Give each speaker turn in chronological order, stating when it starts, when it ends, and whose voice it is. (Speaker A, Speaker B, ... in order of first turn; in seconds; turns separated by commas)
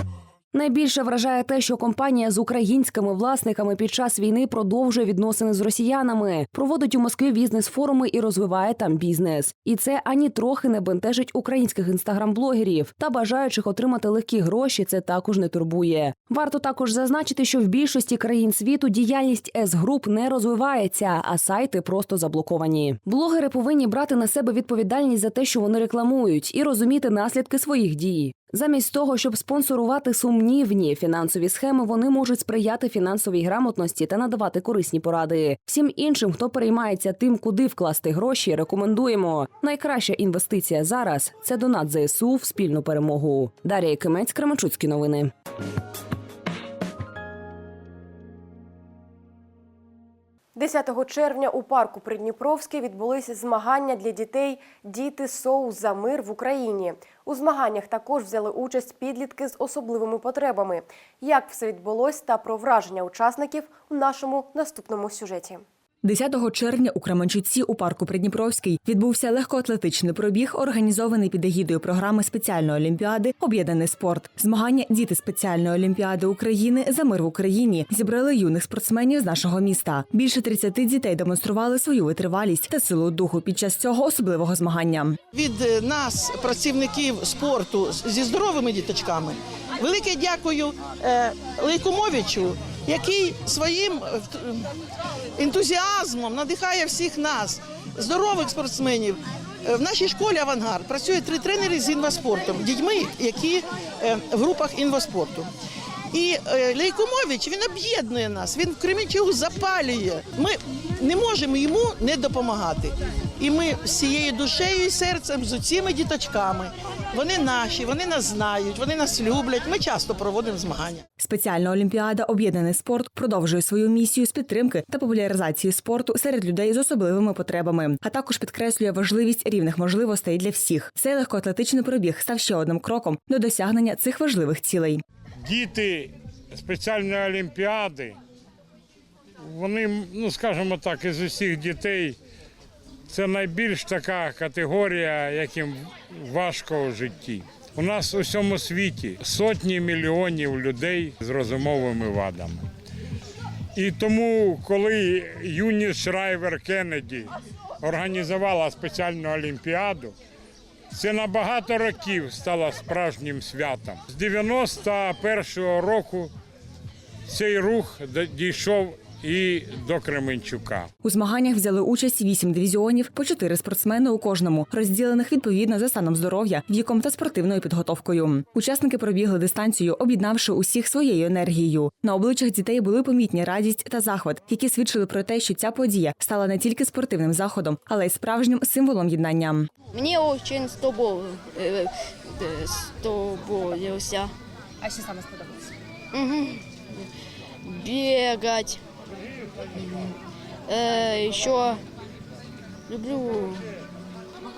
Speaker A: 0.5-45.3, Speaker B: 50.5-65.6, Speaker C: 66.0-85.2, Speaker D: 85.3-94.6, Speaker D: 95.4-105.5, Speaker D: 106.1-121.0, Speaker C: 121.2-135.0, Speaker E: 135.4-138.2, Speaker E: 139.4-142.2, Speaker E: 143.1-152.6, Speaker E: 153.8-160.1, Speaker E: 160.9-166.3, Speaker E: 167.3-170.9, Speaker C: 171.0-189.7, Speaker F: 189.9-194.3, Speaker F: 196.1-197.1, Speaker F: 197.6-198.8, Speaker F: 199.8-200.2, Speaker F: 200.7-201.8, Speaker F: 202.9-203.6